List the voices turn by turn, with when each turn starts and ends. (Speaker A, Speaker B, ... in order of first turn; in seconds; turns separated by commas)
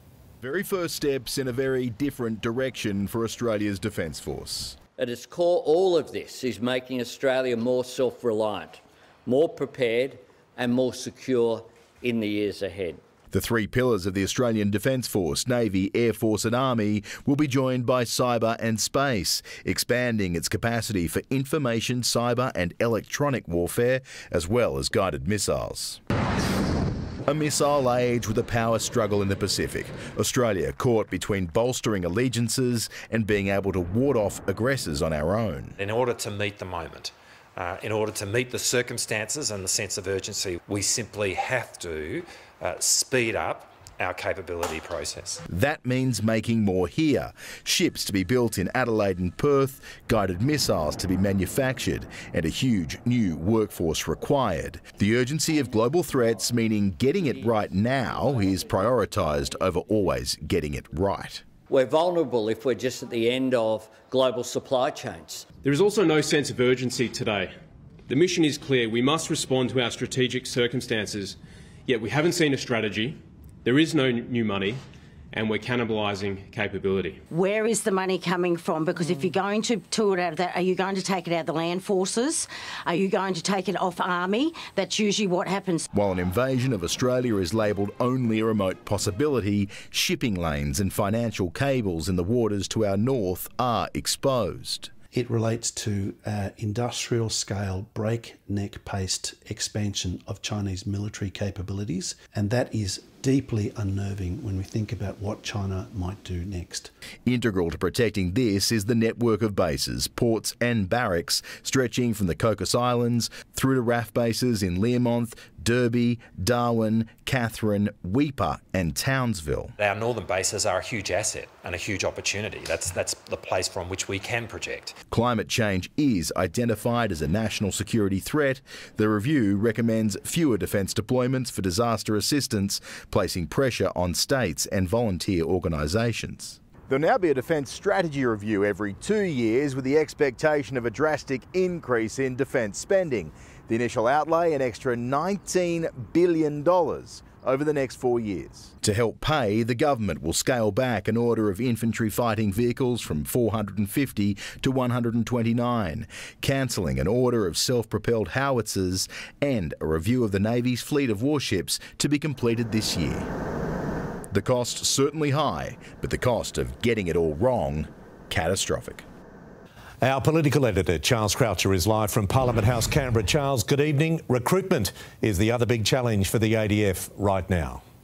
Speaker A: 0.4-4.8, Speaker B: 5.0-13.0, Speaker A: 13.3-26.0, Speaker A: 27.3-35.8, Speaker C: 35.8-45.4, Speaker A: 45.5-61.4, Speaker B: 61.7-65.5, Speaker D: 65.6-67.5, Speaker D: 68.1-71.4, Speaker D: 71.9-74.8, Speaker D: 75.3-77.2, Speaker E: 77.3-85.9, Speaker A: 85.9-94.9, Speaker F: 95.1-106.9, Speaker A: 107.3-119.7, Speaker C: 119.8-125.0, Speaker A: 125.1-163.3, Speaker A: 164.3-169.1, Speaker G: 170.0-177.8